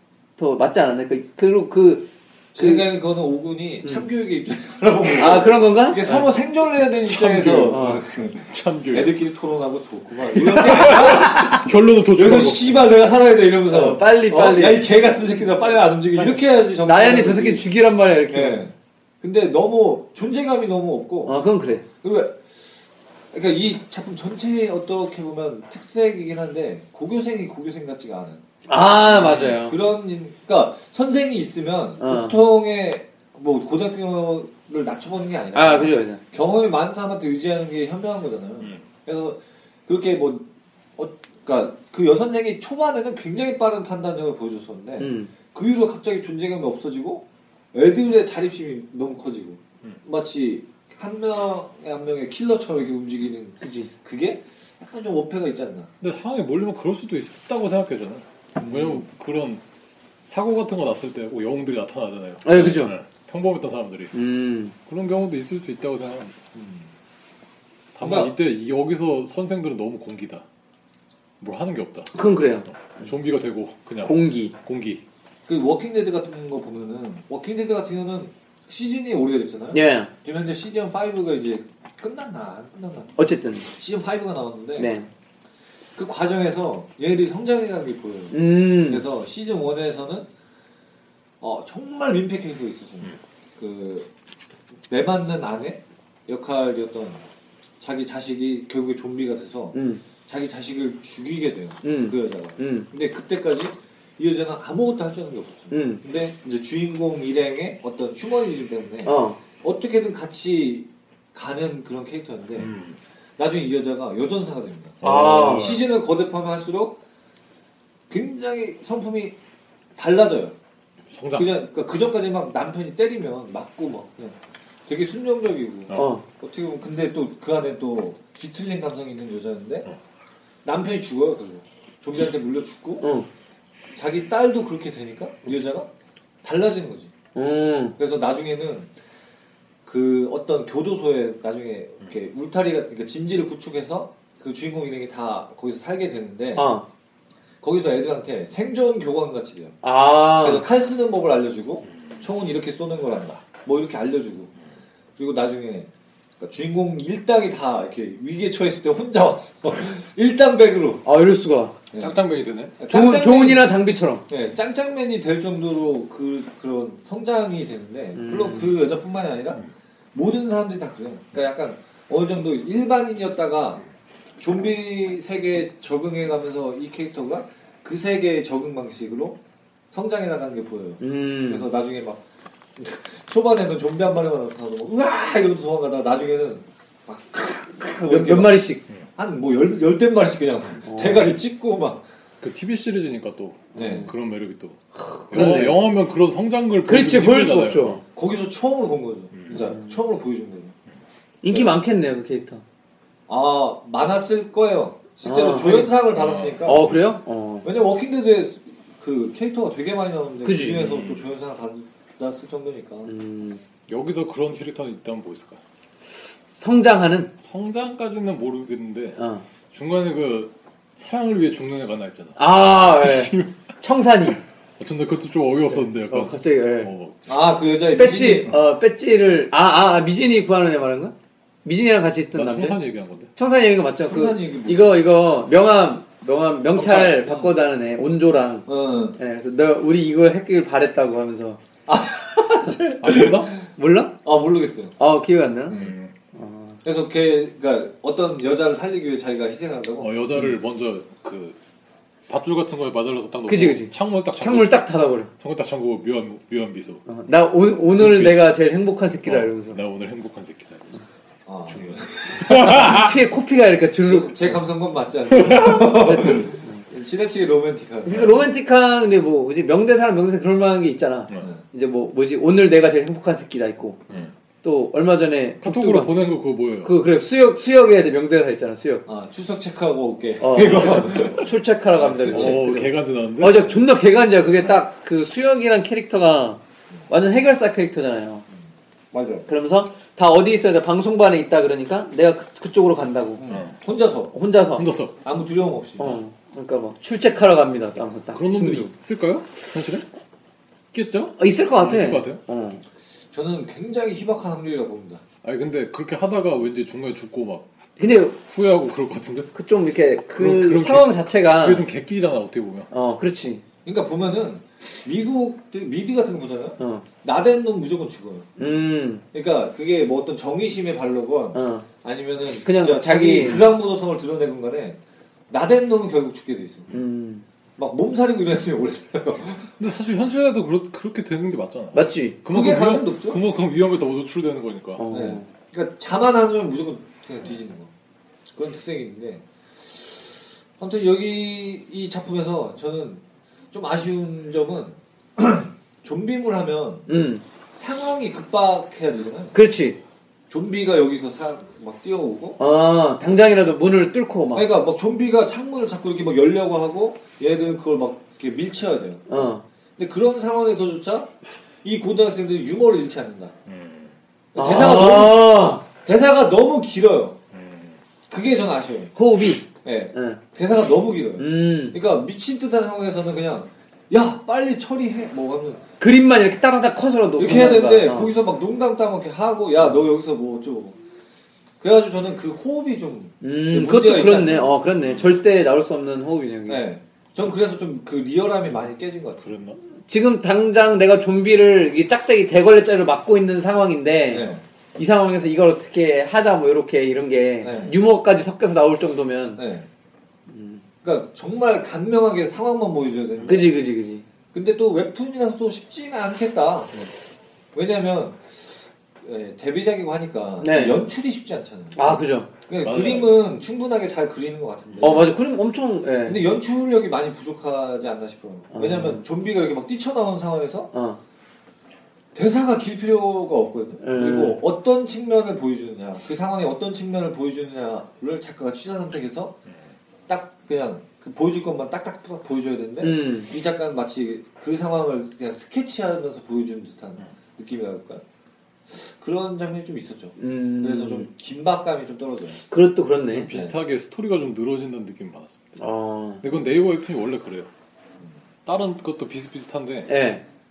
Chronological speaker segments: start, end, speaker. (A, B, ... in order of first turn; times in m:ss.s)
0:00.4-0:02.9 A
0:02.5-0:17.7 B
0:05.2-0:06.3 A
0:07.0-0:07.9 C
0:07.7-0:08.0 A
0:08.5-0:09.2 C
0:10.6-0:12.8 C
0:13.7-0:14.9 A
0:16.2-0:18.6 A
0:18.3-0:21.4 B
0:21.3-0:21.8 A
0:22.0-0:28.4 B
0:28.7-0:29.8 A
0:29.1-0:55.9 B
0:32.0-0:32.4 A
0:35.6-0:36.2 A
0:45.0-0:45.3 A
0:53.6-0:53.9 A
0:56.0-0:59.6 C
0:58.6-0:59.1 B
1:00.3-1:04.1 C
1:02.4-1:02.9 A
1:04.1-1:04.8 A
1:04.9-1:06.4 C
1:06.6-1:06.9 B
1:08.0-1:10.4 C
1:08.0-1:08.3 B
1:11.4-1:12.1 C
1:12.1-1:12.7 A
1:12.7-1:15.0 C
1:14.0-1:14.5 A
1:15.5-1:24.9 B
1:19.7-1:20.1 A
1:23.2-1:23.7 A
1:24.8-1:25.1 A
1:26.0-1:30.3 B
1:28.3-1:29.0 A
1:31.4-1:34.1 B
1:34.9-1:37.2 B
1:37.8-1:52.7 B
1:39.7-1:40.0 A
1:41.8-1:42.9 A
1:45.7-1:46.0 A
1:49.0-1:49.4 A
1:52.6-1:53.0 C
1:53.4-1:57.0 B
1:55.0-1:55.8 C
1:55.0-1:55.8 A
1:58.1-1:59.4 B
2:00.0-2:00.6 B
2:01.1-2:01.5 C
2:01.4-2:09.9 B
2:05.9-2:06.2 A
2:10.6-2:13.1 B
2:13.0-2:13.3 A
2:14.0-2:15.9 B
2:16.4-2:17.1 B
2:17.4-2:18.0 A
2:18.0-2:18.9 B
2:19.8-2:26.7 B
2:26.6-2:26.9 A
2:27.6-2:29.8 B
2:29.8-2:30.6 A
2:30.4-2:34.5 B
2:35.2-2:35.9 B
2:36.4-2:41.0 B
2:41.0-2:41.8 A
2:41.9-2:42.2 B
2:42.0-2:42.8 C
2:42.8-2:43.7 B
2:42.9-2:44.2 A
2:44.3-2:49.6 B
2:48.2-2:48.7 A
2:50.1-2:53.8 B
2:54.4-2:59.4 B
2:59.9-3:02.2 B
3:01.0-3:01.7 A
3:02.8-3:12.0 B
3:08.1-3:08.8 A
3:10.8-3:11.3 A
3:12.4-3:14.8 C
3:13.8-3:14.1 A
3:13.8-3:14.1 B
3:15.0-3:15.8 A
3:15.3-3:18.0 C
3:16.9-3:18.0 A
3:18.2-3:20.7 B
3:19.3-3:19.6 C
3:19.5-3:19.9 A
3:21.4-3:22.6 A
3:21.5-3:21.8 B
3:23.3-3:26.9 B
3:25.2-3:26.0 A
3:26.1-3:27.0 C
3:26.6-3:27.7 A
3:27.6-3:33.1 B
3:30.4-3:31.0 A
3:30.8-3:31.3 C
3:33.1-3:33.6 A
3:33.9-3:35.6 C
3:36.6-3:37.3 A
3:37.4-3:39.2 C
3:39.2-3:39.4 A
3:39.7-3:43.6 C
3:42.4-3:44.4 A
3:44.8-3:47.2 C
3:45.7-3:46.9 A
3:47.3-3:48.5 B
3:48.0-3:51.1 A
3:51.6-3:52.8 A
3:52.3-3:53.3 C
3:53.4-4:01.6 A
3:54.1-3:54.9 B
3:56.8-3:57.5 C
3:58.7-3:59.2 B
4:01.9-4:03.6 B
4:03.0-4:03.5 C
4:03.8-4:04.1 A
4:04.2-4:05.0 B
4:05.0-4:05.8 A
4:05.7-4:06.1 C
4:06.3-4:06.8 A
4:06.8-4:10.1 B
4:10.0-4:11.6 C
4:12.3-4:14.8 C
4:13.5-4:15.3 A
4:15.4-4:17.0 C
4:17.1-4:19.8 A
4:18.0-4:18.6 C
4:19.2-4:21.0 C
4:21.5-4:23.0 B
4:21.7-4:23.2 C
4:22.4-4:24.6 A
4:24.0-4:28.4 B
4:25.4-4:25.7 C
4:25.6-4:26.8 A
4:28.0-4:34.0 A
4:34.6-4:36.1 A
4:35.6-4:36.9 C
4:36.8-4:39.0 A
4:39.1-4:42.6 B
4:40.4-4:48.5 A
4:42.2-4:43.8 C
4:49.1-4:49.5 B
4:49.5-4:53.4 A
4:53.4-4:54.3 B
4:53.5-4:53.8 C
4:54.3-4:54.9 A
4:54.8-4:55.2 C
4:55.2-4:56.2 B
4:56.0-4:58.9 A
4:58.3-5:00.1 C
5:00.9-5:02.4 C
5:01.4-5:02.8 A
5:03.3-5:05.2 B
5:05.4-5:07.7 C
5:08.0-5:08.4 A
5:08.4-5:09.5 C
5:09.5-5:11.8 A
5:10.4-5:12.9 C
5:12.9-5:13.6 A
5:13.8-5:18.5 B
5:16.8-5:17.0 A
5:18.6-5:19.2 A
5:19.3-5:25.0 B
5:21.5-5:21.9 A
5:22.6-5:23.7 A
5:25.5-5:26.9 B
5:26.9-5:27.4 A
5:27.8-5:29.7 B
5:29.8-5:35.0 C
5:31.9-5:32.4 A
5:32.5-5:33.4 B
5:35.0-5:35.5 A
5:35.1-5:37.9 B
5:38.6-5:49.6 B
5:47.1-5:47.4 A
5:49.5-5:50.0 A
5:50.5-5:52.6 B
5:52.6-5:54.7 A
5:54.5-6:03.5 B
5:59.3-5:59.6 A
6:03.7-6:04.2 C
6:04.5-6:07.4 B
6:04.6-6:05.8 A
6:07.5-6:08.0 C
6:08.3-6:09.1 B
6:09.2-6:10.4 A
6:09.8-6:15.8 B
6:11.4-6:12.0 A
6:16.0-6:18.3 A
6:17.4-6:21.0 B
6:21.8-6:24.8 B
6:23.4-6:26.8 A
6:26.7-6:29.5 B
6:29.4-6:29.8 C
6:30.1-6:39.6 A
6:34.3-6:34.6 B
6:37.6-6:38.0 B
6:39.6-6:39.9 B
6:40.5-6:40.8 A
6:41.0-6:43.7 B
6:43.4-6:44.2 A
6:44.5-6:47.1 B
6:47.7-6:55.4 B
6:50.6-6:51.0 A
6:52.0-6:52.5 A
6:52.8-6:53.4 C
6:55.0-6:56.4 A
6:56.2-7:00.9 B
6:58.7-6:59.2 A
7:00.9-7:01.2 A
7:02.3-7:09.6 B
7:04.0-7:04.6 A
7:10.3-7:18.2 B
7:13.0-7:13.5 A
7:18.9-7:22.6 B
7:20.4-7:21.3 A
7:22.7-7:23.5 A
7:23.3-7:25.6 C
7:25.8-7:26.4 A
7:26.4-7:27.7 C
7:28.6-7:30.1 C
7:30.1-7:30.4 A